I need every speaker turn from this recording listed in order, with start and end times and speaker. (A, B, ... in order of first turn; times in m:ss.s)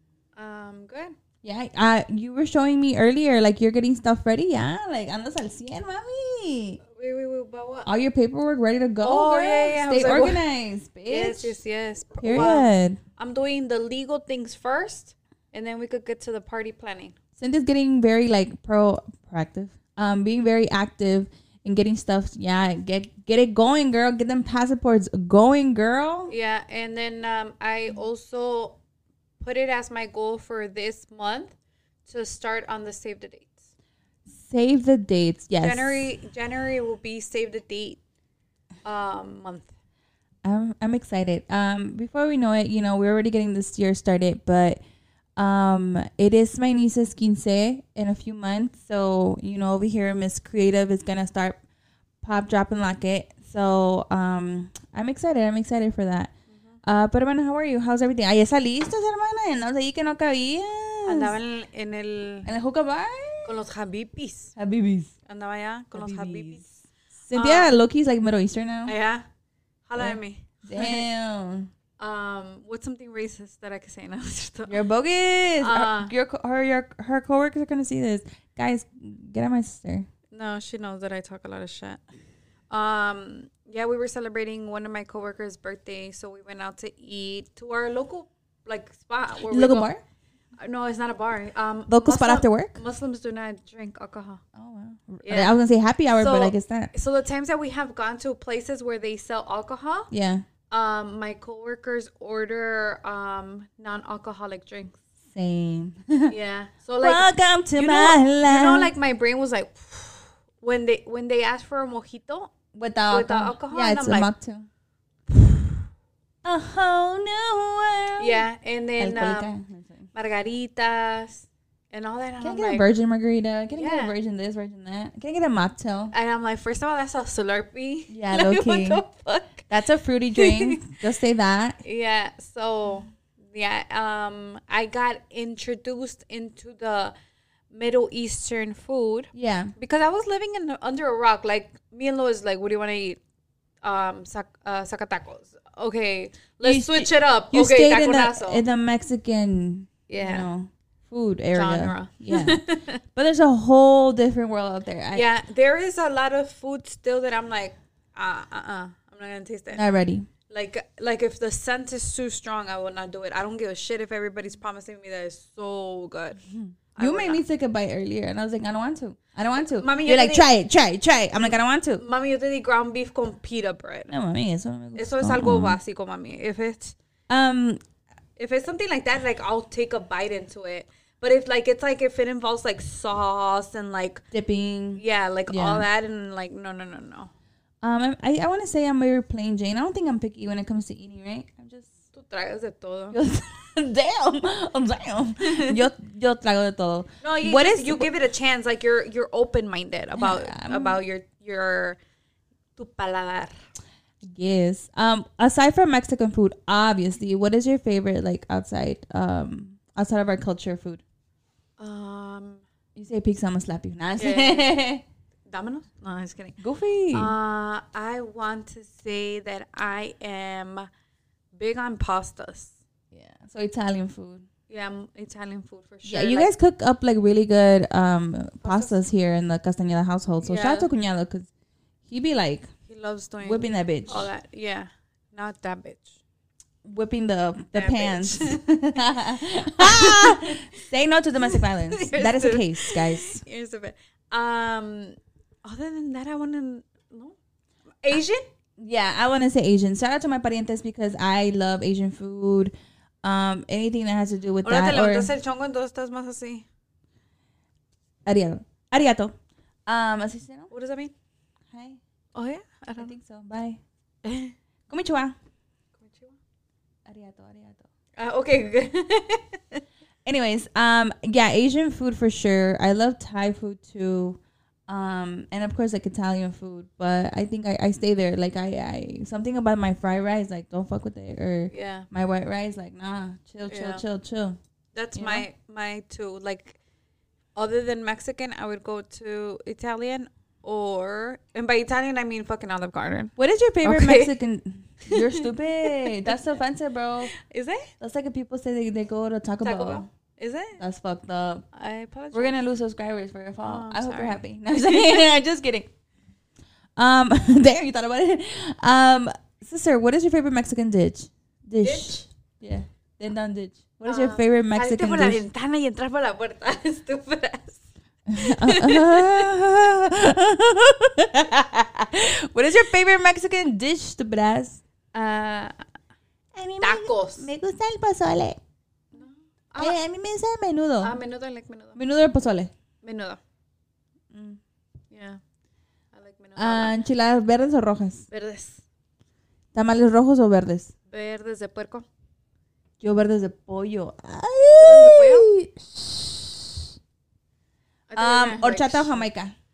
0:00.4-0:01.1 A
0:01.4-0:06.8 B
0:06.9-0:07.9 A
0:07.8-0:11.6 B
0:09.0-0:10.4 A
0:11.1-0:17.1 A
0:12.2-0:13.0 B
0:17.4-0:26.3 B
0:26.3-0:28.8 A
0:29.4-0:31.5 A
0:32.0-0:33.6 A
0:34.3-0:36.1 B
0:35.6-0:38.0 A
0:38.8-0:39.7 A
0:40.4-0:44.8 B
0:45.4-0:51.6 B
0:52.2-0:56.3 B
0:56.8-1:01.4 B
1:01.0-1:02.5 A
1:02.4-1:03.5 B
1:03.4-1:04.5 A
1:04.6-1:05.1 B
1:05.3-1:06.6 A
1:05.9-1:06.7 B
1:07.2-1:08.9 B
1:07.3-1:07.7 A
1:08.8-1:09.2 A
1:09.9-1:11.1 A
1:10.0-1:11.7 B
1:12.0-1:14.8 A
1:14.7-1:20.1 B
1:15.6-1:16.1 A
1:20.3-1:22.0 A
1:22.7-1:29.9 A
1:29.5-1:30.0 B
1:30.6-1:34.4 A
1:31.9-1:32.8 B
1:34.5-1:36.9 B
1:35.2-1:35.5 A
1:36.2-1:40.1 A
1:40.1-1:40.4 B
1:40.7-1:45.0 A
1:45.3-1:46.3 B
1:46.3-1:52.5 A
1:47.0-1:48.9 B
1:52.7-1:54.7 B
1:53.1-1:54.3 A
1:56.4-1:58.4 B
1:58.2-1:59.5 A
1:59.0-2:00.1 B
2:00.1-2:02.9 A
2:02.4-2:06.1 B
2:03.7-2:04.1 A
2:06.1-2:09.7 A
2:08.1-2:09.0 B
2:09.7-2:11.8 B
2:10.3-2:10.9 A
2:11.8-2:17.1 A
2:17.7-2:23.2 A
2:19.3-2:19.7 B
2:23.8-2:28.6 A
2:26.6-2:35.3 B
2:30.1-2:30.4 A
2:31.5-2:33.0 A
2:35.1-2:39.8 A
2:39.7-2:40.3 B
2:40.5-2:46.4 A
2:46.5-2:52.0 B
2:46.9-2:47.4 A
2:49.6-2:50.5 A
2:52.0-2:54.1 A
2:54.1-2:55.8 B
2:55.0-2:56.9 A
2:57.3-2:57.8 B
2:58.4-3:04.2 A
3:04.3-3:05.8 B
3:05.0-3:07.3 A
3:07.8-3:11.9 B
3:12.1-3:13.2 A
3:13.1-3:18.1 B
3:15.4-3:15.8 A
3:17.2-3:22.0 A
3:20.1-3:21.0 B
3:22.8-3:23.5 A
3:24.2-3:31.0 B
3:31.8-3:32.6 A
3:32.9-3:35.0 B
3:34.2-3:34.7 A
3:35.5-3:36.6 A
3:36.6-3:37.3 B
3:37.1-3:40.9 A
3:41.6-3:42.8 A
3:43.1-3:44.4 B
3:44.7-3:46.5 A
3:46.0-3:51.5 B
3:48.6-3:49.0 A
3:50.4-3:50.9 A
3:52.1-3:52.7 B
3:52.9-3:56.2 A
3:53.4-3:54.3 B
3:56.8-4:03.4 B
3:57.7-3:58.6 A
3:59.7-4:00.6 A
4:01.5-4:07.4 A
4:08.0-4:08.4 A
4:08.8-4:15.3 B
4:14.6-4:16.6 A
4:18.2-4:19.3 B
4:19.9-4:20.7 B
4:20.7-4:21.1 A
4:21.7-4:22.0 B
4:22.3-4:23.1 A
4:23.0-4:23.8 B
4:24.2-4:24.5 A
4:24.9-4:25.3 B
4:26.0-4:26.4 A
4:27.0-4:27.9 B
4:28.2-4:29.8 A
4:30.2-4:44.6 B
4:41.7-4:42.1 A
4:43.7-4:44.0 A
4:44.9-4:46.8 A
4:45.1-4:45.4 B
4:47.5-4:54.3 A
4:53.4-4:57.3 B
4:55.1-4:56.3 A
4:57.3-4:57.9 A
4:58.0-5:00.1 B
4:59.6-5:00.8 A
5:00.8-5:01.6 B
5:01.7-5:02.6 A
5:02.3-5:05.9 B
5:03.6-5:05.1 A
5:07.0-5:15.4 B
5:11.8-5:12.2 A
5:14.0-5:17.8 A
5:18.3-5:24.8 B
5:18.4-5:19.5 A
5:25.1-5:25.7 A
5:26.5-5:28.6 B
5:26.8-5:27.5 A
5:29.1-5:30.0 A
5:29.8-5:31.2 B
5:31.0-5:32.0 A
5:32.0-5:32.7 B
5:33.0-5:33.4 A
5:34.3-5:34.6 B
5:35.1-5:35.4 A
5:36.1-5:36.9 A
5:36.6-5:38.2 B
5:38.3-5:38.8 A
5:39.7-5:40.9 B
5:41.1-5:42.0 A
5:43.0-5:46.9 B
5:44.8-5:45.5 A
5:48.1-5:49.2 A
5:48.2-5:49.5 B